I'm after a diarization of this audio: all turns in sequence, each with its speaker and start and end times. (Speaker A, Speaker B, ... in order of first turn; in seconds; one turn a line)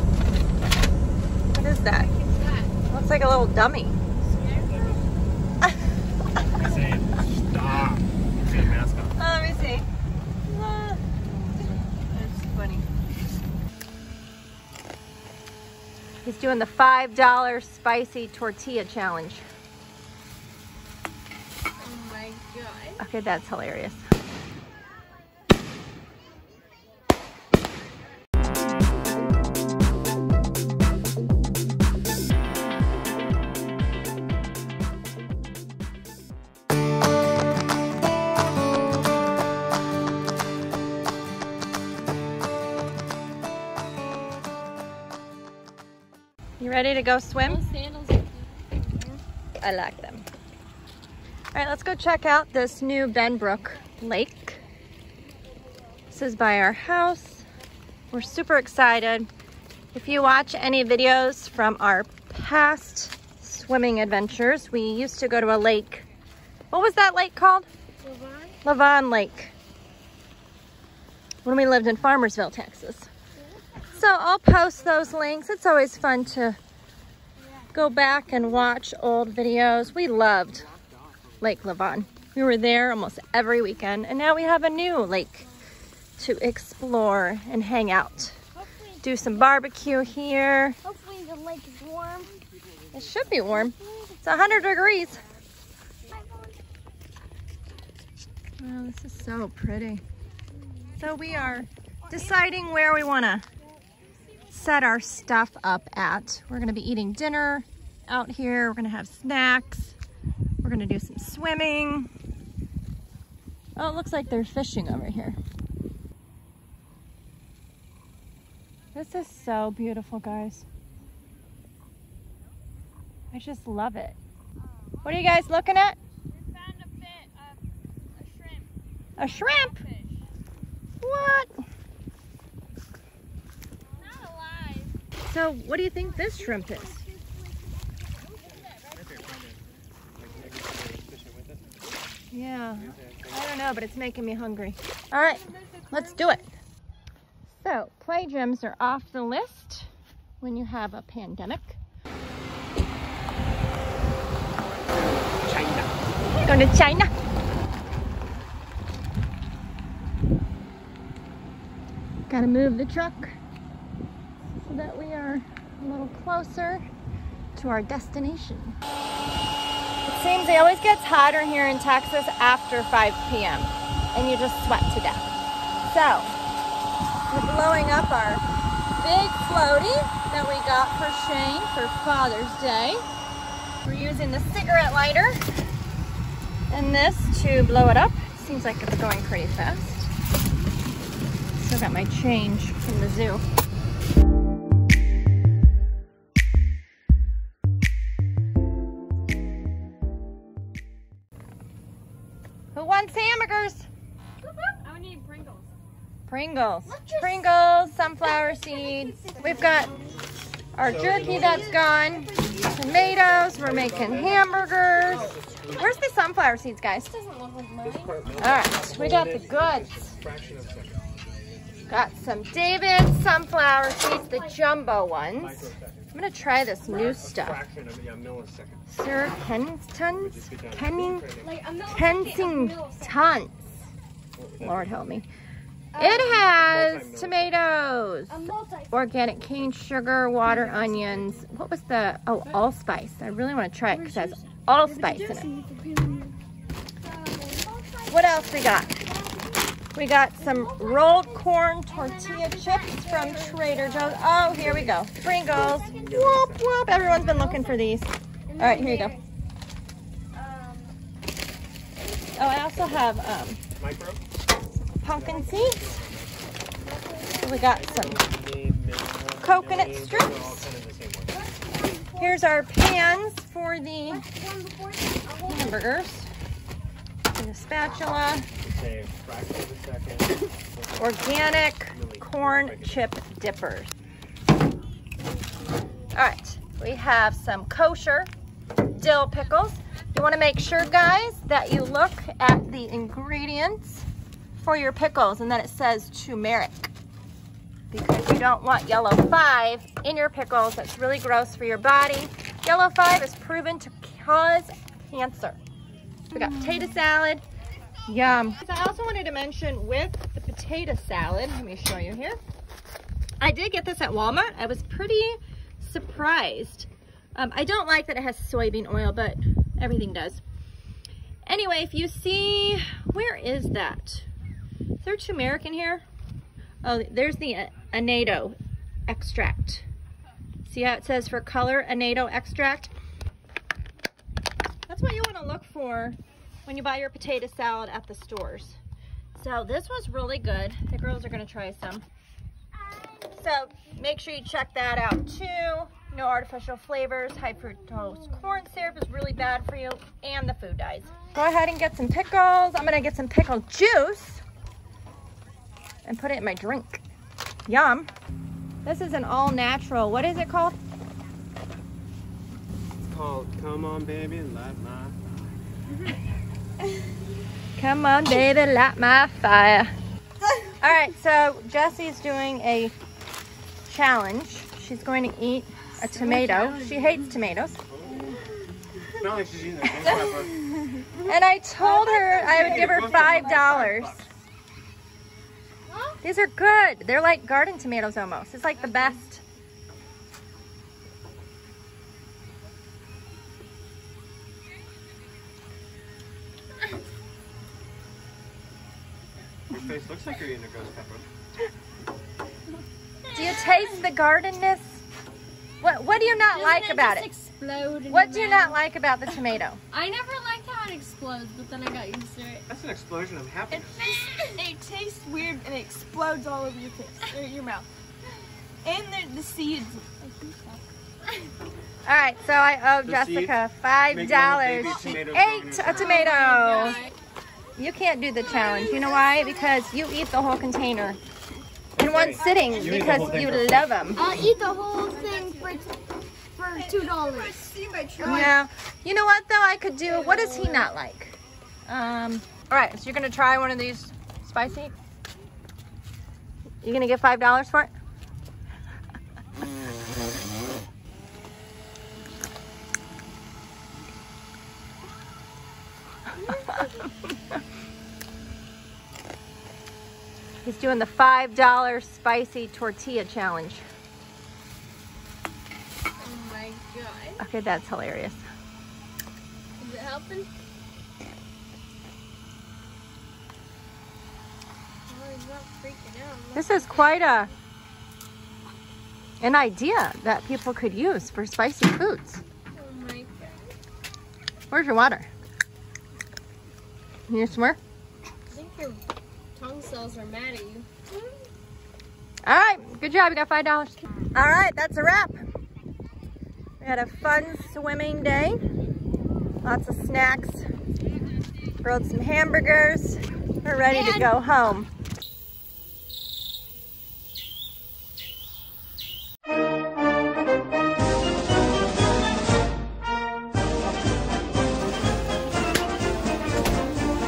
Speaker A: 1.5-2.1
Speaker B: 1.9-2.7
Speaker A: 2.9-4.0
Speaker B: 4.4-5.0
Speaker C: 4.5-5.0
Speaker C: 6.5-9.1
Speaker A: 9.2-9.8
Speaker A: 10.4-12.8
Speaker A: 16.2-19.4
Speaker B: 21.8-23.0
Speaker A: 23.0-24.1
Speaker A: 46.6-47.6
Speaker B: 47.3-49.2
Speaker A: 49.6-50.2
Speaker A: 51.5-54.6
Speaker A: 56.1-57.5
Speaker A: 58.1-59.3
Speaker A: 59.9-66.1
Speaker A: 66.7-67.7
Speaker B: 68.0-68.5
Speaker A: 68.6-69.5
Speaker A: 71.4-73.1
Speaker B: 73.4-74.0
Speaker A: 73.9-76.6
Speaker A: 77.7-80.7
Speaker C: 80.6-81.6
Speaker A: 81.4-85.5
Speaker A: 86.2-88.4
Speaker B: 88.7-88.9
Speaker A: 89.0-90.8
Speaker B: 90.8-92.4
Speaker A: 92.9-95.2
Speaker B: 93.5-95.1
Speaker B: 96.1-96.6
Speaker A: 98.6-100.0
Speaker A: 101.0-103.4
Speaker A: 104.5-110.0
Speaker A: 110.6-112.1
Speaker A: 113.8-115.4
Speaker A: 118.9-120.7
Speaker A: 123.3-124.2
Speaker A: 125.0-126.0
Speaker B: 126.5-127.5
Speaker B: 128.2-128.6
Speaker A: 129.2-129.8
Speaker B: 129.4-130.1
Speaker A: 131.0-131.5
Speaker B: 134.0-134.9
Speaker A: 135.2-137.0
Speaker B: 136.3-137.4
Speaker B: 138.4-139.0
Speaker C: 138.6-139.6
Speaker C: 140.2-141.8
Speaker A: 142.3-146.5
Speaker C: 142.7-143.5
Speaker B: 145.2-146.4
Speaker A: 147.5-149.9
Speaker A: 150.4-151.8
Speaker C: 154.9-156.0
Speaker A: 156.4-157.1
Speaker A: 162.3-163.4
Speaker A: 164.6-166.8
Speaker A: 167.5-168.8
Speaker A: 170.0-175.3
Speaker A: 175.8-176.3
Speaker A: 177.3-178.4
Speaker A: 179.0-183.0
Speaker A: 183.8-185.4
Speaker A: 186.7-190.1
Speaker A: 191.6-193.4
Speaker A: 202.7-203.9
Speaker B: 204.4-205.7
Speaker A: 206.3-209.9
Speaker B: 206.8-207.5
Speaker B: 208.2-210.2
Speaker A: 210.7-217.1
Speaker C: 210.8-211.8
Speaker B: 211.0-214.4
Speaker C: 213.5-216.0
Speaker B: 215.0-215.7
Speaker B: 217.1-218.3
Speaker C: 217.8-221.9
Speaker A: 218.4-220.1
Speaker A: 221.9-227.6
Speaker B: 224.2-224.6
Speaker C: 225.4-226.1
Speaker C: 226.8-228.9
Speaker A: 228.9-231.3
Speaker C: 230.1-231.6
Speaker B: 231.4-233.3
Speaker A: 231.8-233.9
Speaker C: 234.3-235.0
Speaker A: 234.6-235.3
Speaker B: 235.9-236.5
Speaker A: 235.9-245.5
Speaker C: 236.4-237.6
Speaker B: 238.3-238.9
Speaker B: 240.4-241.4
Speaker B: 243.9-246.4
Speaker B: 247.0-249.8
Speaker A: 248.1-248.9
Speaker A: 249.9-259.1
Speaker B: 250.4-254.8
Speaker C: 254.5-256.7
Speaker B: 255.4-256.2
Speaker B: 256.9-257.8
Speaker B: 258.5-259.3
Speaker B: 260.3-260.9
Speaker A: 262.3-263.6
Speaker C: 263.8-264.2
Speaker A: 265.0-265.8
Speaker C: 265.1-266.5
Speaker B: 265.2-265.8
Speaker B: 266.8-268.2
Speaker A: 267.4-268.2
Speaker C: 267.7-271.4
Speaker A: 269.4-270.7
Speaker B: 271.3-272.4
Speaker A: 272.2-274.2
Speaker B: 274.1-275.8
Speaker A: 275.5-276.3
Speaker A: 277.3-278.5
Speaker C: 278.6-283.1
Speaker A: 281.0-283.9
Speaker A: 286.1-288.3
Speaker A: 288.9-296.9
Speaker A: 297.9-305.6
Speaker A: 306.3-307.4
Speaker A: 308.1-312.4
Speaker A: 313.4-320.4
Speaker A: 321.4-324.3
Speaker A: 325.0-326.0
Speaker A: 326.8-329.8
Speaker A: 330.6-332.9
Speaker A: 334.9-338.8
Speaker A: 339.4-342.0
Speaker A: 343.3-354.4
Speaker A: 356.0-357.0
Speaker A: 357.6-358.1
Speaker A: 358.8-360.8
Speaker C: 363.0-365.2
Speaker A: 367.8-369.9
Speaker A: 370.8-372.9
Speaker A: 373.9-377.8
Speaker B: 376.2-376.7
Speaker C: 377.9-378.4
Speaker C: 379.1-380.7
Speaker A: 381.1-384.2
Speaker B: 381.9-383.9
Speaker C: 382.4-384.2
Speaker D: 383.2-383.6
Speaker B: 385.9-386.2
Speaker A: 386.2-389.4
Speaker C: 399.7-401.3
Speaker B: 403.2-404.0
Speaker A: 403.3-405.0
Speaker A: 405.8-407.3
Speaker B: 406.5-408.8
Speaker A: 408.1-409.8
Speaker B: 409.9-412.6
Speaker C: 412.7-414.0
Speaker D: 413.7-417.9
Speaker B: 413.9-414.6
Speaker D: 418.8-420.5
Speaker A: 422.1-427.0
Speaker C: 423.0-426.2
Speaker B: 425.9-427.1
Speaker A: 427.8-431.2
Speaker B: 428.6-429.5
Speaker A: 432.0-434.3
Speaker C: 432.0-434.0
Speaker D: 432.4-433.5
Speaker B: 432.4-433.1
Speaker B: 434.1-435.9
Speaker D: 435.1-435.8
Speaker B: 436.6-438.5
Speaker D: 436.7-438.5
Speaker A: 438.2-444.9
Speaker B: 440.5-440.9
Speaker A: 446.8-447.9
Speaker B: 456.4-456.9
Speaker A: 460.6-463.9
Speaker B: 466.2-467.4
Speaker A: 467.4-468.4
Speaker B: 469.8-470.5
Speaker B: 475.1-477.5
Speaker A: 476.5-477.5
Speaker A: 479.4-482.4
Speaker B: 482.7-483.7
Speaker A: 484.7-485.3
Speaker A: 487.3-487.8
Speaker B: 488.5-489.0
Speaker B: 489.5-490.9
Speaker A: 492.4-495.4
Speaker A: 496.8-498.6
Speaker A: 499.6-500.7
Speaker A: 501.8-504.9
Speaker B: 503.8-504.3